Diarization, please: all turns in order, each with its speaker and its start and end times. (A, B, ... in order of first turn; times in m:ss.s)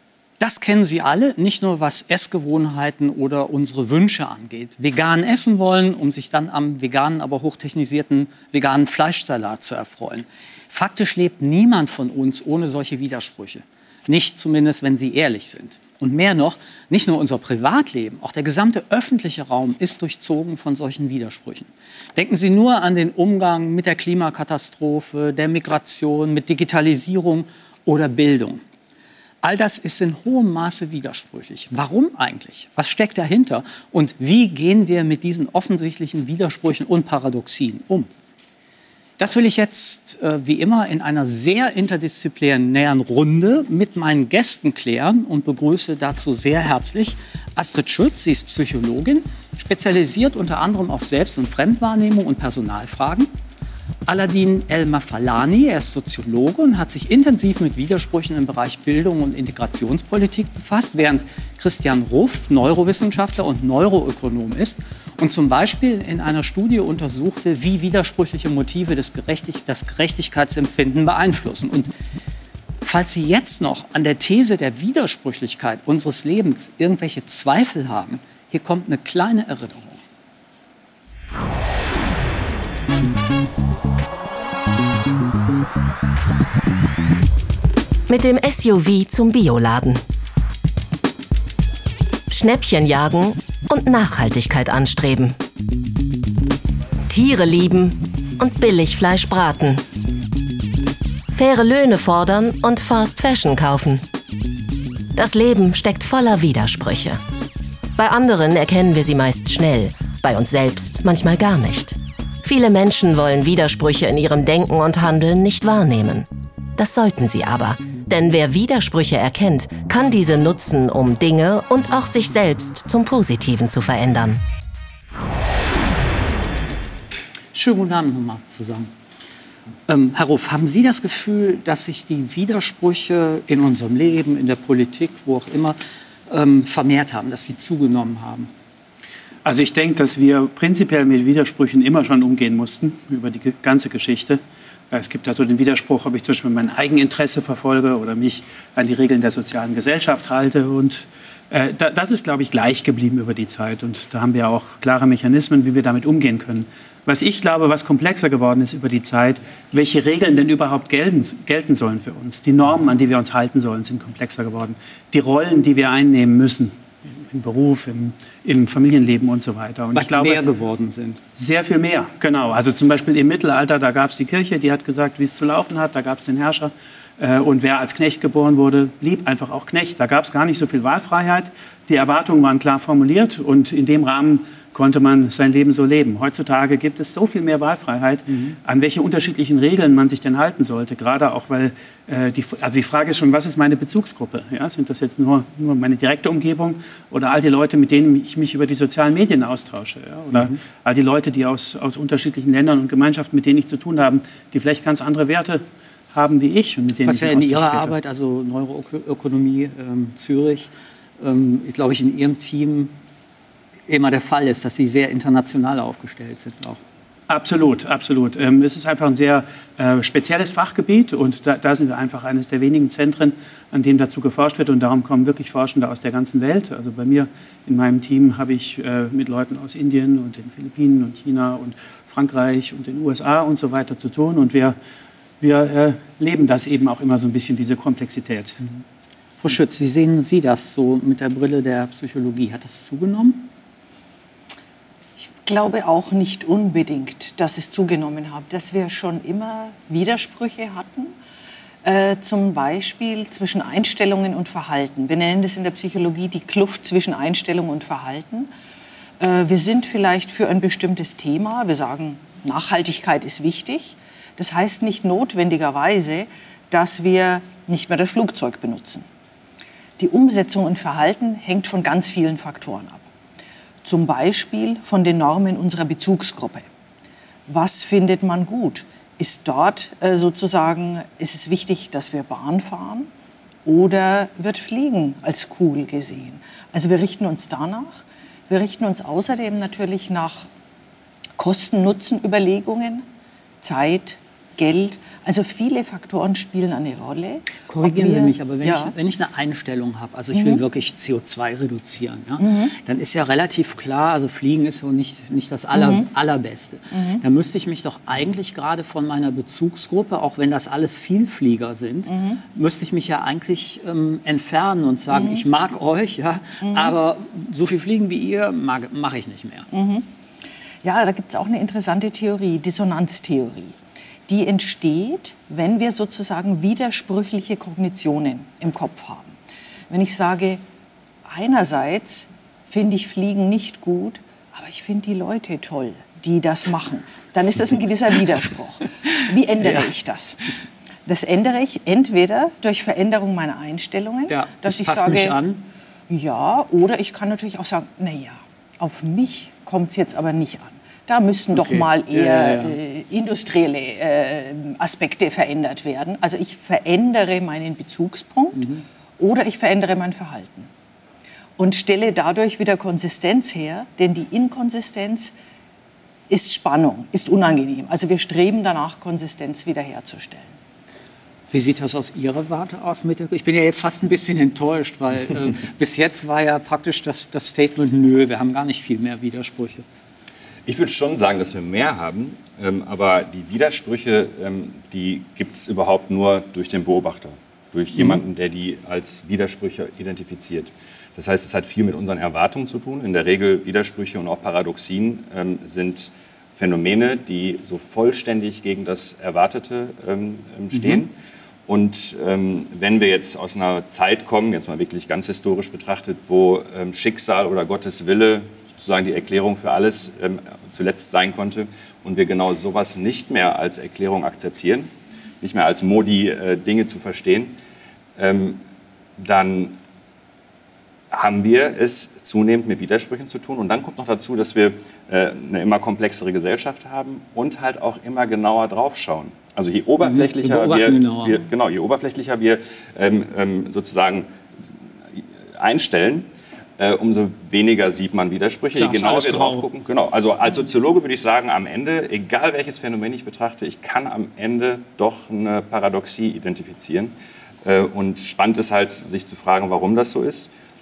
0:00.4-0:28.6 A
0:29.4-0:38.1 A
0:39.2-0:53.3 A
0:54.1-1:11.9 A
1:12.8-1:20.0 A
1:28.1-1:30.0 B
1:32.3-1:35.4 B
1:37.1-1:39.8 B
1:41.3-1:44.0 B
1:45.2-1:47.2 B
1:48.0-2:04.4 B
2:07.5-2:08.9 A
2:09.9-2:15.8 A
2:16.3-2:18.5 A
2:19.4-2:50.4 C
2:49.9-2:51.2 A
2:51.4-3:28.0 C
3:27.0-3:32.9 A
3:33.9-3:36.8 A
3:37.3-3:54.8 C
3:55.4-3:58.6 C
3:59.4-4:03.5 A
4:05.2-4:11.1 D
4:11.8-4:18.5 D
4:19.2-4:29.1 D
4:30.0-4:33.1 D
4:33.8-4:36.7 D
4:37.5-4:43.1 D
4:43.6-4:50.5 D
4:51.4-4:53.0 D
4:53.6-4:58.9 D
4:57.7-5:19.7 A
5:00.3-5:00.6 D
5:02.4-5:02.7 D
5:05.7-5:06.1 D
5:06.9-5:07.2 D
5:12.1-5:12.4 D
5:15.1-5:15.4 D
5:16.6-5:17.0 D
5:19.7-5:20.1 D
5:20.8-5:23.8 D
5:24.3-5:29.4 D
5:29.9-5:30.6 D
5:31.3-5:40.5 D
5:41.1-5:45.4 D
5:44.3-5:45.6 A
5:46.1-5:58.7 D
5:51.6-5:52.8 A
5:58.6-5:58.8 A
5:59.2-6:00.7 D
6:01.6-6:05.3 D
6:06.3-6:10.5 D
6:11.5-6:19.8 A
6:20.7-6:41.1 E
6:27.9-6:28.2 A
6:40.7-6:41.0 A
6:41.7-6:54.9 E
6:55.4-6:57.5 E
6:58.2-6:58.6 E
6:59.2-6:59.8 E
7:01.1-7:14.3 E
7:10.0-7:11.4 A
7:15.2-7:16.3 E
7:16.8-7:27.1 E
7:18.8-7:19.7 A
7:27.6-7:30.5 E